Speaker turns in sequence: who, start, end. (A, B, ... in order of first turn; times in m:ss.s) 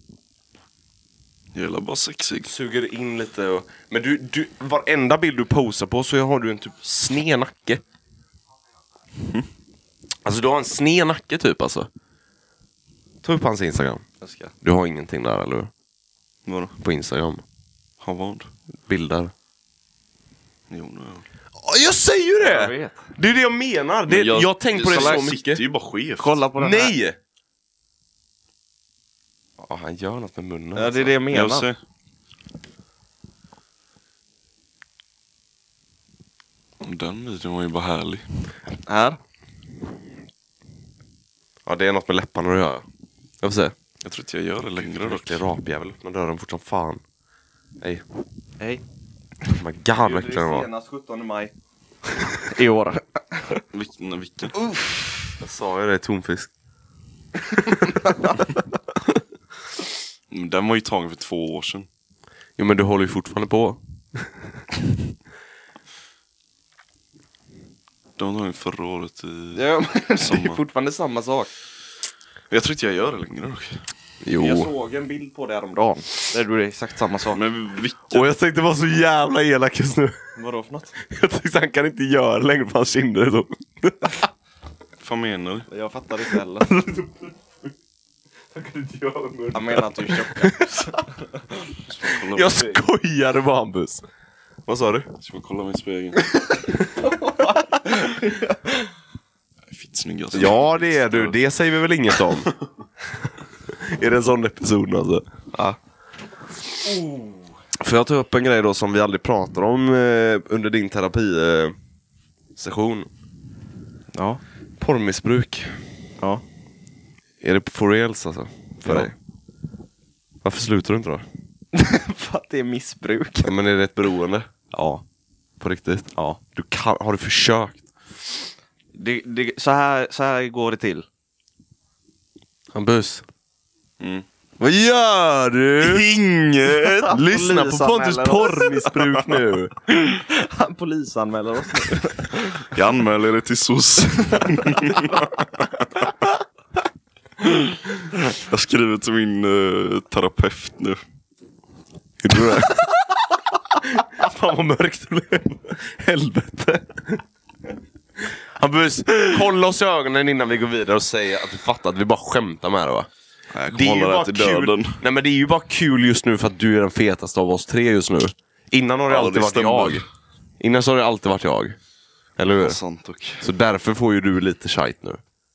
0:01.5-0:02.5 A
0:02.4-0:07.8 B
0:10.2-0:11.9 B
0:13.2-0:14.0 B
0:14.2-0:14.5 C
0:14.6-0:15.7 B
0:16.4-0:16.7 A
0:16.8-0:17.4 B
0:18.0-0:18.5 A
0:18.9-0:19.3 B
0:20.7-0:21.2 A
0:21.6-0:25.6 B
0:22.4-0:23.0 C
0:24.1-0:26.4 A
0:26.2-0:26.9 C
0:26.6-0:27.2 B
0:29.6-0:31.1 B
0:30.8-0:31.7 C
0:31.3-0:31.8 A
0:36.8-0:38.2 A
0:38.8-0:39.2 C
0:41.6-0:42.8 B
0:43.4-0:43.7 B
0:44.0-0:45.4 A
0:44.8-0:47.0 B
0:49.5-0:50.7 B
0:50.0-0:51.5 C
0:52.3-0:53.6 C
0:53.7-0:54.5 A
0:54.6-0:55.3 C
0:55.4-0:56.5 B
0:57.7-0:57.9 B
0:58.1-0:58.4 C
1:00.3-1:01.9 A
1:02.6-1:04.3 B
1:08.2-1:09.6 A
1:09.5-1:11.5 C
1:10.2-1:10.6 A
1:12.5-1:13.8 A
1:14.2-1:14.7 B
1:14.4-1:17.4 C
1:17.3-1:18.3 A
1:18.1-1:20.2 B
1:20.4-1:20.9 C
1:21.0-1:24.2 B
1:25.0-1:25.7 A
1:25.7-1:26.7 C
1:26.6-1:27.7 B
1:28.5-1:30.9 B
1:29.5-1:31.1 C
1:31.9-1:32.8 A
1:32.0-1:34.0 B
1:34.6-1:35.1 B
1:35.2-1:36.3 A
1:37.0-1:38.7 C
1:39.7-1:41.4 A
1:40.3-1:42.5 B
1:43.7-1:45.2 B
1:46.8-1:47.5 C
1:47.8-1:51.7 B
1:52.6-1:53.1 B
1:54.1-1:54.4 C
1:54.8-1:55.8 B
1:57.4-1:59.1 B
2:00.4-2:01.2 B
2:01.7-2:03.5 C
2:03.4-2:04.5 B
2:04.7-2:05.0 C
2:05.6-2:07.8 B
2:08.9-2:11.0 C
2:12.7-2:13.2 B
2:14.0-2:14.2 A
2:14.6-2:16.0 B
2:15.8-2:17.1 A
2:16.9-2:19.0 C
2:17.1-2:19.7 B
2:20.0-2:22.7 C
2:22.7-2:25.2 A
2:28.2-2:31.0 A
2:32.2-2:33.0 B
2:33.8-2:37.2 B
2:38.2-2:43.1 B
2:43.5-2:45.0 A
2:43.7-2:50.0 B
2:49.1-2:50.0 A
2:50.6-2:51.8 B
2:52.4-2:52.8 B
2:52.5-2:53.4 A
2:53.4-2:55.2 B